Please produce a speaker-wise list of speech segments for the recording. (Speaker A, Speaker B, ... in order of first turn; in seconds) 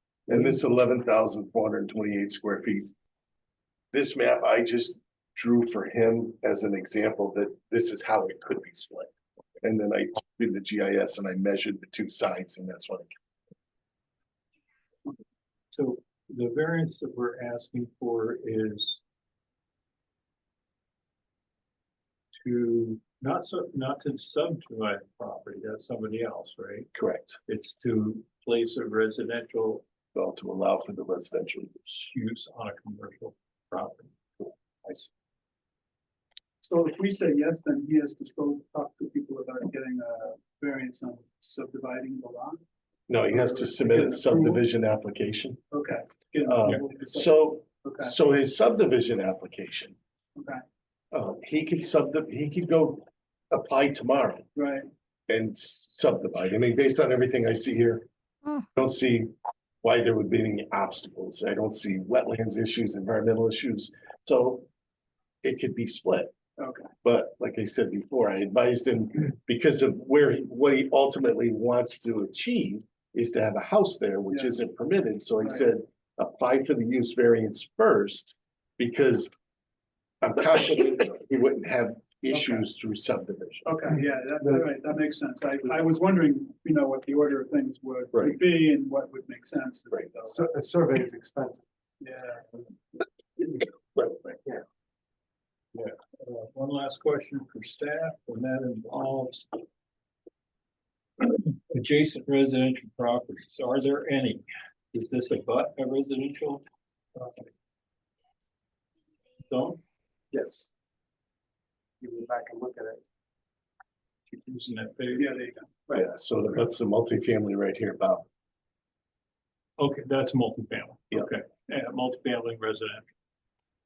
Speaker A: 0.3-2.9, 3.9-13.1, 26.9-27.4, 30.1-32.1, 43.1-45.6, 46.4-50.0, 51.1-54.5, 55.3-58.1, 58.7-64.7, 65.4-66.3, 67.0-79.3, 80.2-83.8, 88.1-88.4, 93.9-94.3, 115.9-118.2
Speaker B: 15.7-19.0, 22.4-26.9, 27.4-29.8, 32.1-34.1, 95.7-99.6, 101.2-106.6, 109.5-109.8, 114.3-115.3, 119.8-123.1
Speaker C: 36.6-42.6, 43.3-44.6, 45.7-48.2, 50.4-50.6, 54.5-54.9, 66.6-66.9, 75.4-75.7, 83.6-90.4, 92.0-92.5, 115.1-116.0
Speaker D: 82.3-82.6, 84.4-84.7, 90.3-91.6, 110.3-110.7, 112.0-113.0